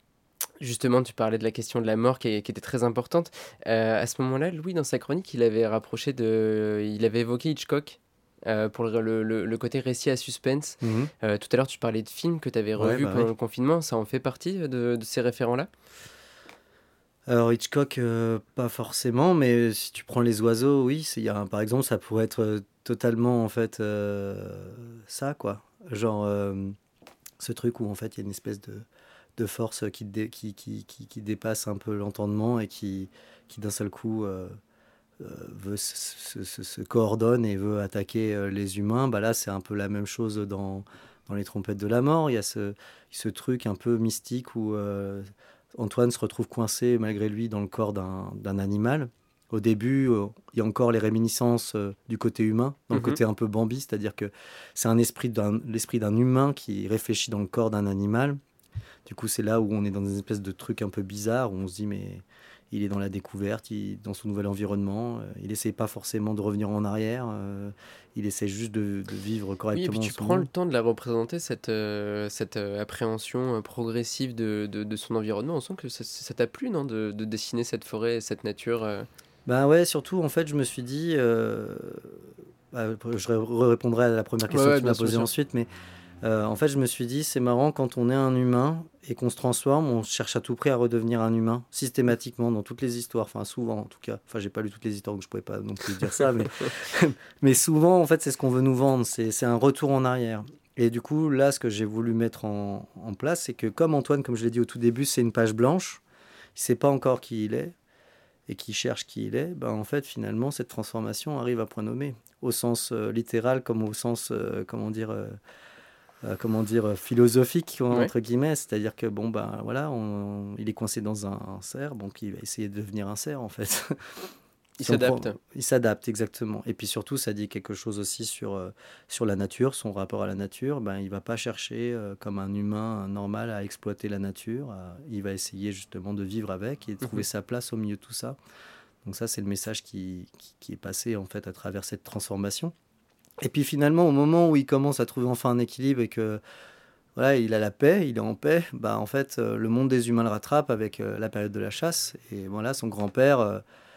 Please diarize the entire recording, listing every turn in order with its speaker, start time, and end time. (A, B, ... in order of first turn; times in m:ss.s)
0:00.6-0:15.7 A
0:10.8-0:11.1 B
0:12.8-0:13.3 B
0:17.3-0:26.7 B
0:27.4-0:28.8 B
0:29.4-0:34.6 B
0:35.2-0:58.4 B
0:52.9-0:53.2 A
0:59.0-1:10.5 B
1:09.7-1:19.1 A
1:19.4-1:25.7 B
1:24.5-1:25.3 A
1:26.2-1:46.0 B
1:46.5-1:47.7 B
1:48.5-1:55.4 B
1:56.2-2:04.3 B
2:04.8-2:05.4 A
2:04.8-2:18.4 B
2:19.0-2:22.7 B
2:23.4-2:26.4 B
2:27.2-2:33.6 B